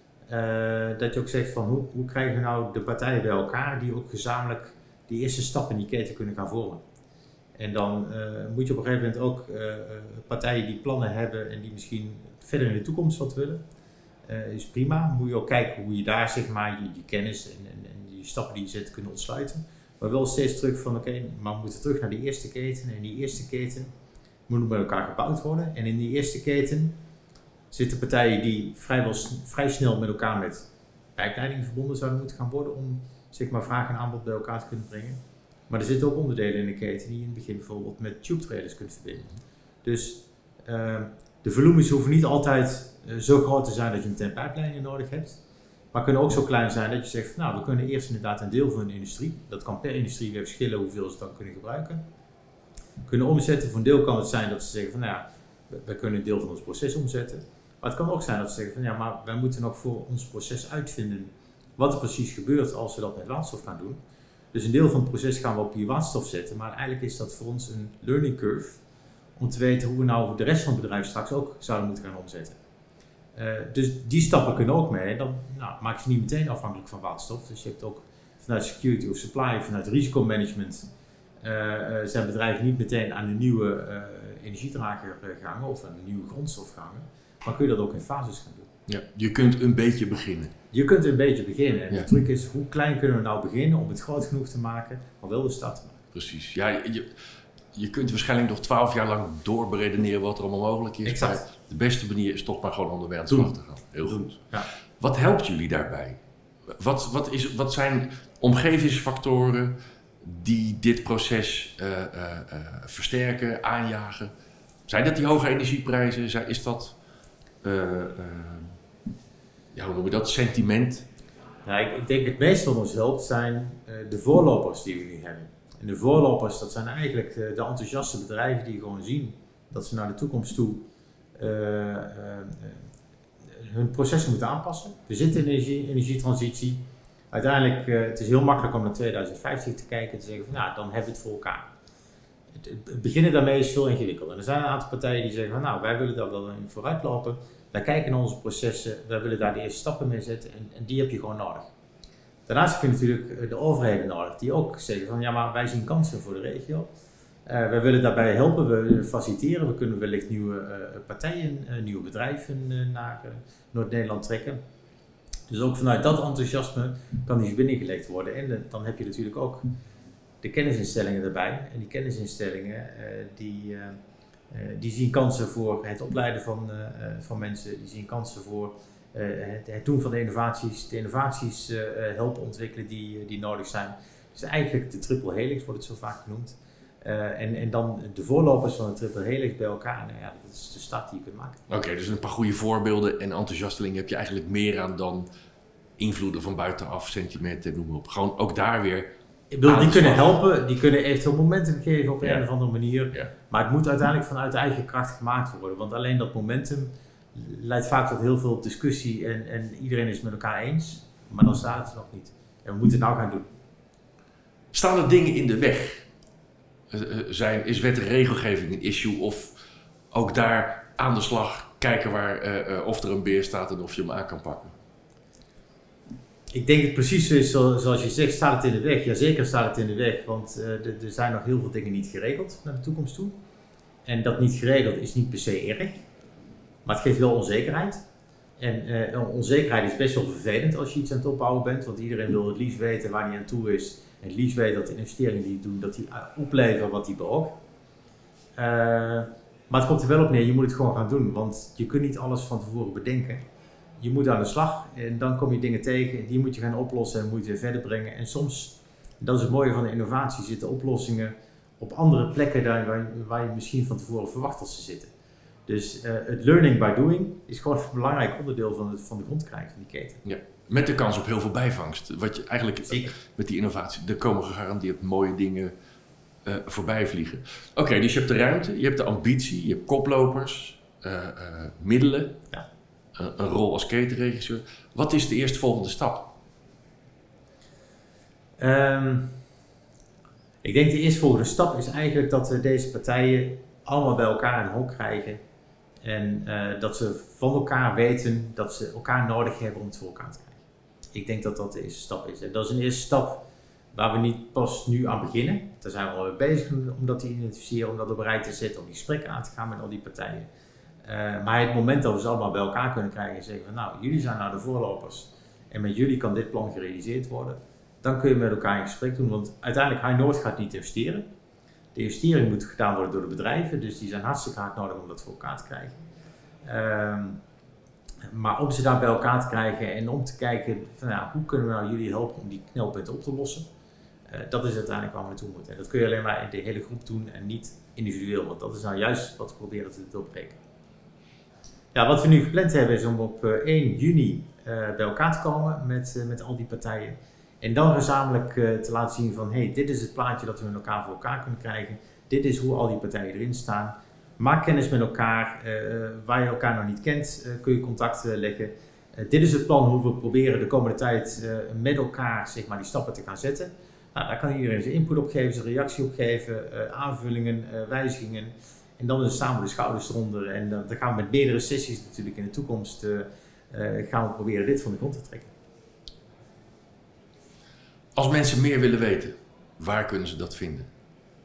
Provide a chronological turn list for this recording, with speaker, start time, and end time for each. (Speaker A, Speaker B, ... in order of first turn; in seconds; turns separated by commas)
Speaker A: 0.3-6.8, Speaker A: 7.6-13.6, Speaker A: 14.3-23.9, Speaker A: 24.5-27.0, Speaker A: 27.7-45.4, Speaker A: 45.9-52.0, Speaker A: 53.0-64.0, Speaker A: 64.5-68.8, Speaker A: 69.4-72.6, Speaker A: 73.3-80.9, Speaker A: 81.4-88.7, Speaker B: 88.9-90.5, Speaker A: 90.7-96.0, Speaker B: 96.1-97.1, Speaker B: 97.7-104.4, Speaker A: 101.0-101.4, Speaker A: 104.1-104.7, Speaker B: 105.0-106.2, Speaker B: 106.7-114.3, Speaker B: 114.9-116.9, Speaker B: 117.6-118.8, Speaker B: 119.7-121.0, Speaker A: 121.6-130.8, Speaker A: 131.4-132.8, Speaker A: 133.5-141.7, Speaker A: 142.6-151.7, Speaker A: 152.5-156.9, Speaker A: 157.4-164.6, Speaker A: 165.5-169.7, Speaker A: 170.4-173.9, Speaker A: 174.5-191.6, Speaker B: 191.7-195.3, Speaker B: 196.0-199.1, Speaker A: 199.5-213.5, Speaker B: 199.6-200.4, Speaker B: 214.7-216.1, Speaker B: 216.9-219.5, Speaker B: 220.1-224.7, Speaker A: 226.5-233.4, Speaker A: 234.0-236.0, Speaker A: 236.8-238.0, Speaker A: 238.6-247.6, Speaker A: 248.6-253.4, Speaker A: 254.0-265.1, Speaker A: 265.7-270.2, Speaker B: 270.2-275.7, Speaker A: 272.9-273.1, Speaker B: 276.4-282.3, Speaker B: 283.2-286.3, Speaker A: 288.6-289.4, Speaker A: 290.6-295.4, Speaker A: 296.0-300.6, Speaker A: 301.1-310.5, Speaker A: 311.0-321.3, Speaker A: 321.9-326.0, Speaker A: 326.6-327.4, Speaker A: 328.2-333.6, Speaker A: 334.3-340.6, Speaker A: 341.9-375.5, Speaker B: 378.1-380.9